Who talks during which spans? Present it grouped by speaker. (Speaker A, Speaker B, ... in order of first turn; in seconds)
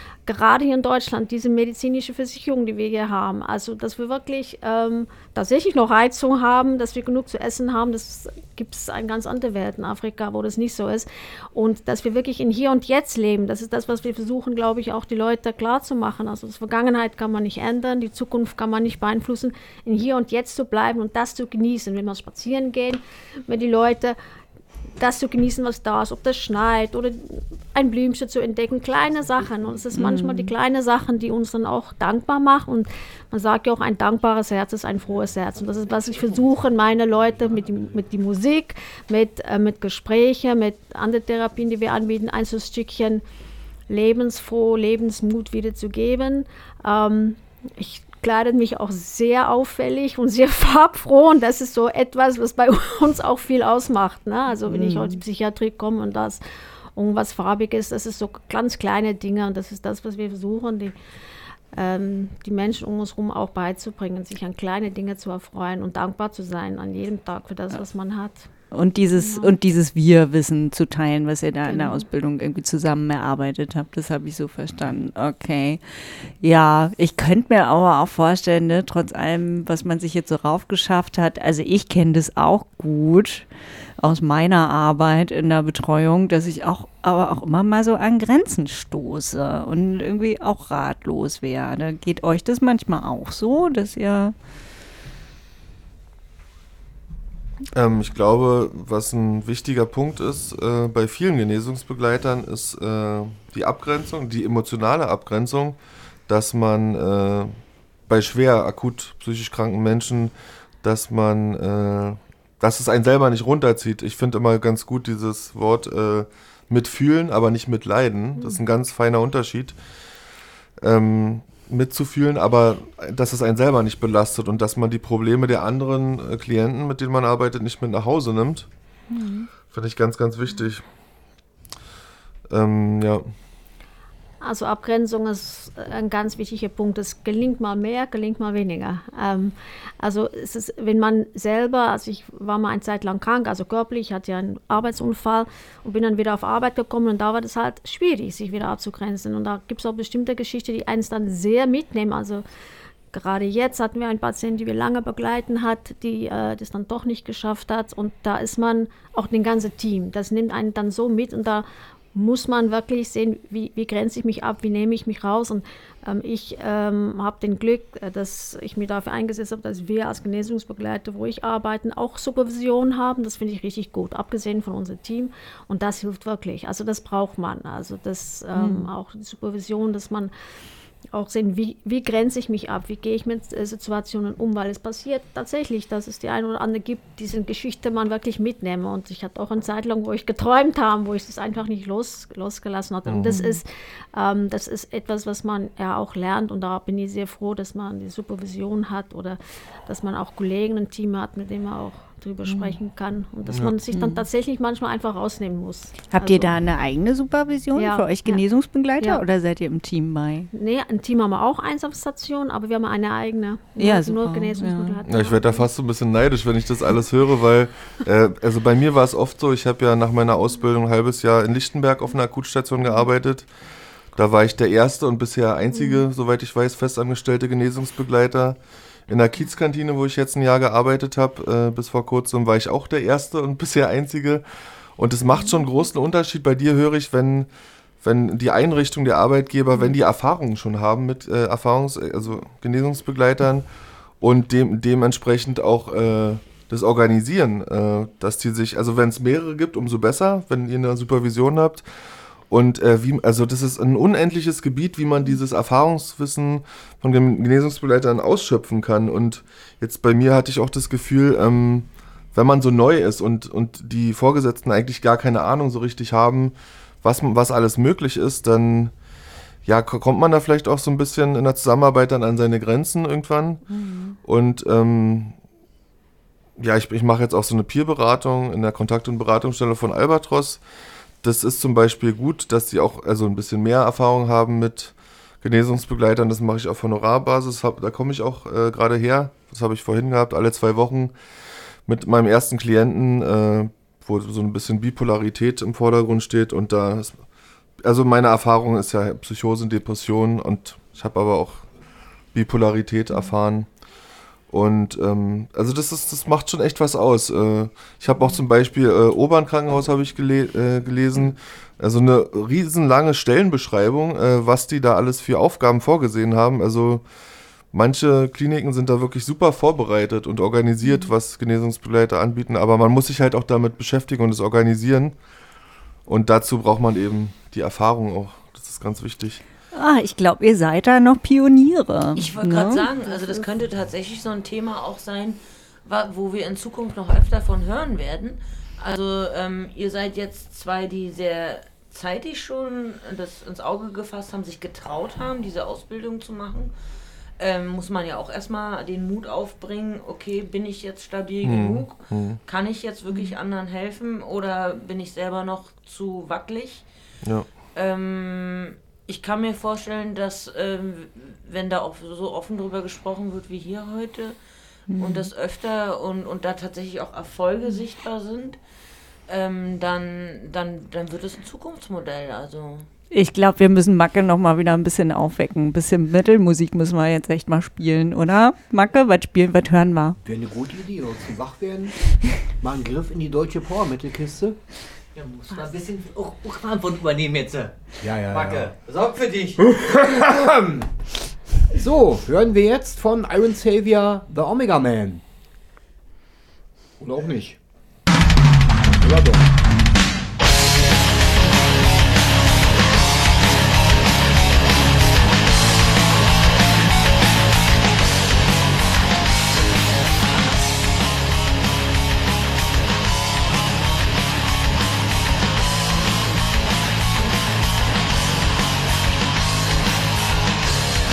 Speaker A: 0.3-24.2, 25.0-43.2, 43.9-56.4, 57.0-61.0, 61.7-68.5, 69.2-69.5, 71.7-72.0, 134.4-152.4, 153.1-180.3, 181.1-206.5, 207.8-208.4, 210.5-215.6
Speaker B: 29.9-30.5, 54.7-55.2, 68.7-83.5, 84.0-94.3, 129.1-129.5, 178.5-178.9, 193.3-193.6, 202.4-202.8, 203.9-204.2, 206.1-210.5, 213.8-215.0, 273.7-274.2, 329.7-333.3, 364.9-365.3, 373.1-380.2
Speaker C: 35.7-38.0, 380.2-381.9, 382.6-384.6, 388.0-388.8, 389.6-390.9, 391.8-395.2, 397.0-397.6, 399.0-399.4
Speaker D: 97.7-119.8, 120.8-128.7, 129.7-130.8, 132.5-133.3, 193.1-193.4, 203.5-203.8, 215.1-223.5, 224.2-234.4, 235.0-237.5, 238.0-243.7, 244.2-251.8, 252.5-268.9, 269.6-273.6, 274.2-275.4, 276.6-280.6, 281.2-291.1, 291.9-297.2, 297.8-301.7, 302.3-303.7, 304.5-317.0, 317.7-325.2, 326.1-329.4, 351.4-352.4
Speaker E: 332.1-346.7, 347.4-356.9, 357.8-364.4, 365.0-368.6, 369.3-372.9
Speaker F: 385.1-389.6